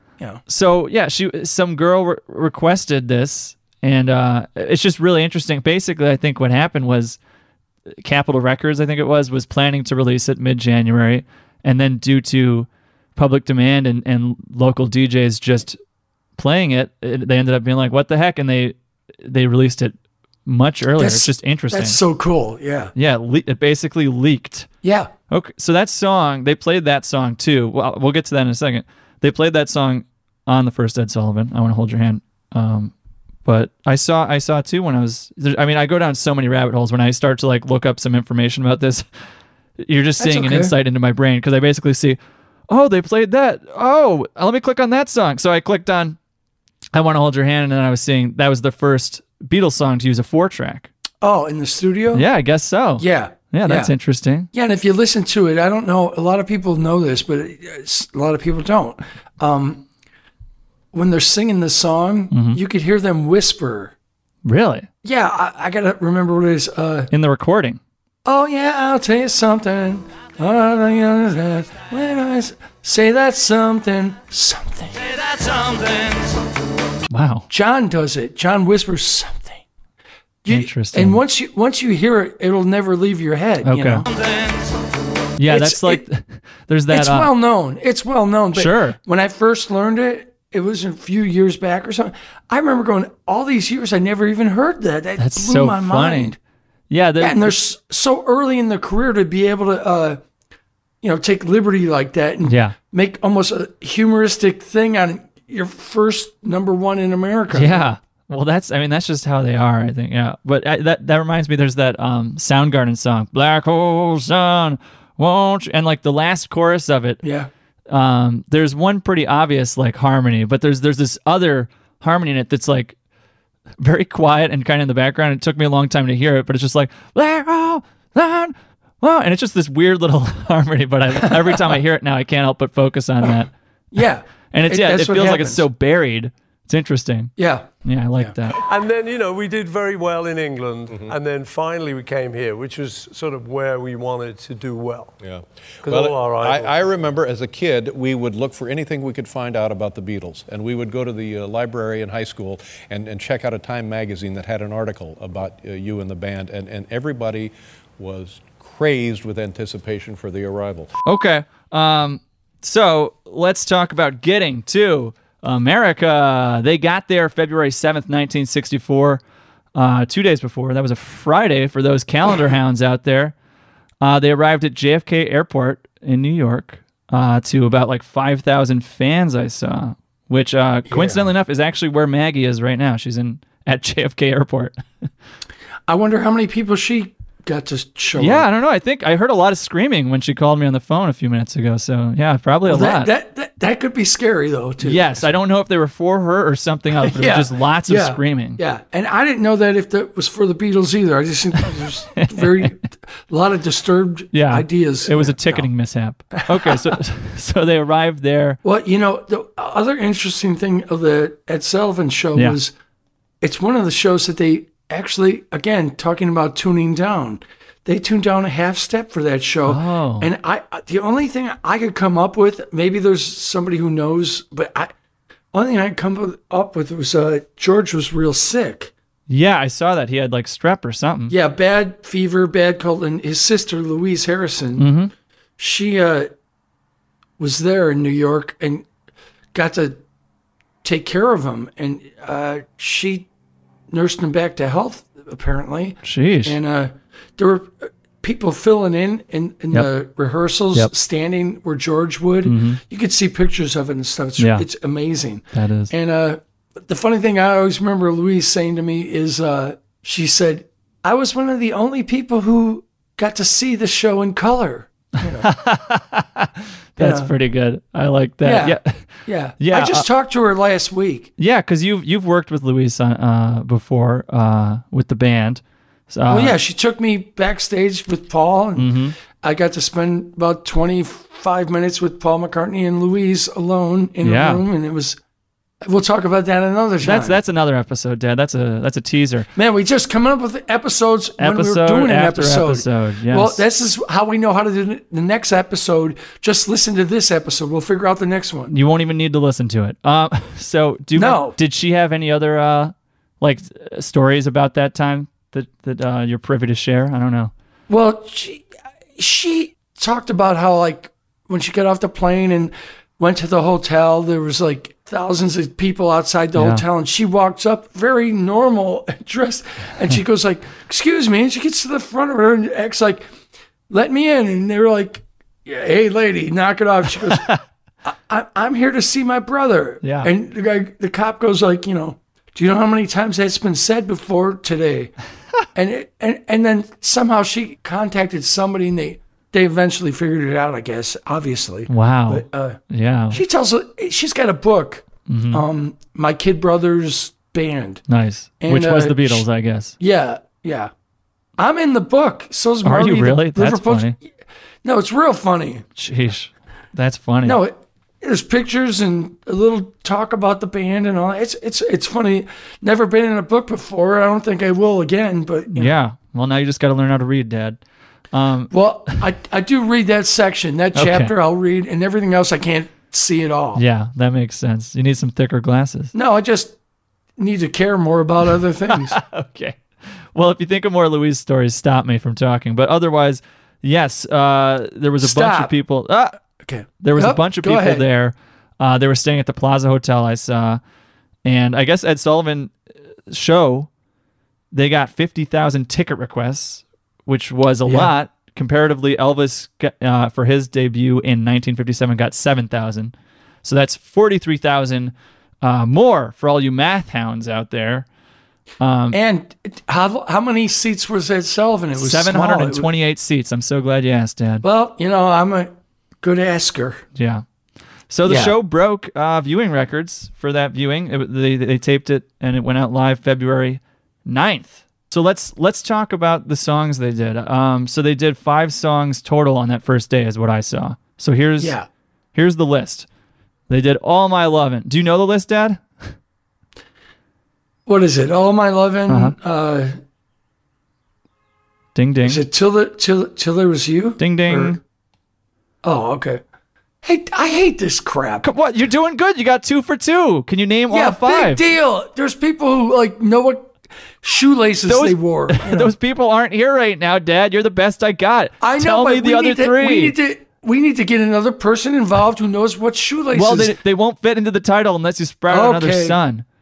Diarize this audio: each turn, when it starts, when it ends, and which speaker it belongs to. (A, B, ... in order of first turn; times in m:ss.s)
0:00.5-0:07.2 A
0:08.0-0:15.8 A
0:16.4-0:22.0 A
0:21.0-0:22.9 B
0:23.0-0:24.7 A
0:24.8-0:25.1 B
0:25.3-0:32.9 A
0:33.5-0:39.0 A
0:39.8-0:42.2 A
0:40.2-0:40.7 B
0:42.7-0:46.2 A
0:46.9-0:50.9 A
0:51.2-0:52.3 B
0:52.1-0:54.5 A
0:53.0-0:53.9 B
0:54.5-0:59.8 B
1:00.9-1:03.9 B
1:02.3-1:02.6 A
1:04.4-1:04.9 A
1:05.0-1:07.1 B
1:07.1-1:07.8 A
1:08.2-1:15.0 B
1:15.4-1:16.1 A
1:17.1-1:17.5 A
1:17.5-1:19.6 B
1:20.4-1:24.1 B
1:20.5-1:21.2 A
1:23.6-1:24.1 A
1:25.4-1:27.3 A
1:25.4-1:26.0 B
1:26.9-1:36.4 B
1:28.5-1:29.0 A
1:35.2-1:36.3 A
1:36.9-1:37.6 A
1:37.2-1:40.2 B
1:41.0-1:47.9 B
1:42.4-1:42.8 A
1:47.5-1:57.2 A
1:57.2-1:57.5 B
1:57.9-2:03.0 A
2:03.8-2:13.5 A
2:11.3-2:11.6 B
2:13.9-2:15.7 B
2:14.5-2:17.3 A
2:17.4-2:18.3 B
2:17.8-2:18.6 A
2:18.7-2:25.1 C
2:25.2-2:40.9 D
2:25.8-2:27.2 C
2:41.0-2:49.2 A
2:49.8-2:53.4 A
2:54.0-3:05.1 A
3:00.9-3:01.3 B
3:05.9-3:08.5 B
3:08.2-3:13.1 A
3:12.7-3:15.3 B
3:14.8-3:18.6 A
3:17.0-3:25.7 B
3:22.2-3:22.7 A
3:24.3-3:28.6 A
3:26.3-3:27.0 B
3:28.6-3:32.7 B
3:33.4-3:44.9 B
3:39.7-3:40.3 A
3:45.5-3:48.9 B
3:49.3-3:51.4 A
3:51.3-3:54.9 B
3:54.8-3:55.1 A
3:55.6-3:56.3 B
3:57.4-3:58.9 B
3:59.5-4:00.0 B
4:00.8-4:03.3 B
4:03.9-4:25.5 B
4:06.0-4:06.6 A
4:12.4-4:12.8 A
4:14.4-4:14.6 A
4:15.5-4:15.9 A
4:25.4-4:30.1 A
4:27.0-4:27.3 B
4:28.4-4:31.3 B
4:31.4-4:36.6 A
4:36.3-4:45.2 B
4:38.8-4:39.2 A
4:44.2-4:44.6 A
4:45.8-4:47.4 B
4:47.0-4:49.5 A
4:49.6-4:58.7 B
4:51.4-4:53.6 A
4:58.7-5:07.5 A
5:01.2-5:01.6 B
5:07.9-5:08.6 B
5:09.2-5:23.2 B
5:16.6-5:16.8 A
5:23.9-5:27.5 B
5:27.2-5:27.6 A
5:28.1-5:35.1 B
5:30.0-5:30.3 A
5:35.7-5:42.8 B
5:41.9-5:43.4 A
5:43.3-5:48.0 B
5:45.3-5:45.6 A
5:48.1-5:50.0 A
5:48.6-5:49.5 B
5:50.0-5:50.9 B
5:51.6-5:54.2 B
5:52.8-5:54.2 A
5:54.8-5:55.9 B
5:56.0-5:57.6 A
5:57.4-6:05.9 B
6:05.7-6:07.8 A
6:08.3-6:08.7 A
6:08.7-6:13.8 B
6:11.0-6:11.3 A
6:13.8-6:16.1 A
6:16.1-6:16.8 B
6:17.4-6:19.2 B
6:18.9-6:19.8 A
6:20.3-6:26.4 A
6:25.2-6:25.8 B
6:26.6-6:28.1 B
6:27.0-6:30.8 A
6:31.4-6:32.8 A
6:33.3-6:33.9 A
6:34.7-6:43.1 A
6:37.8-6:38.1 B
6:43.6-6:48.1 A
6:48.8-6:49.2 A
6:49.1-6:52.9 B
6:52.0-6:54.6 A
6:54.6-6:57.0 B
6:57.2-6:57.4 A
6:58.1-7:11.8 A
6:58.2-6:58.6 B
7:11.6-7:11.9 B
7:12.4-7:13.1 A
7:13.7-7:15.9 A
7:17.9-7:20.0 B
7:19.1-7:19.4 A
7:22.0-7:22.4 A
7:22.2-7:24.8 B
7:24.2-7:24.8 A
7:25.8-7:26.4 B
7:27.0-7:28.5 B
7:28.4-7:31.6 A
7:30.9-7:35.9 B
7:34.9-7:40.2 A
7:38.6-7:43.8 B
7:43.3-7:46.4 A
7:45.5-7:46.2 B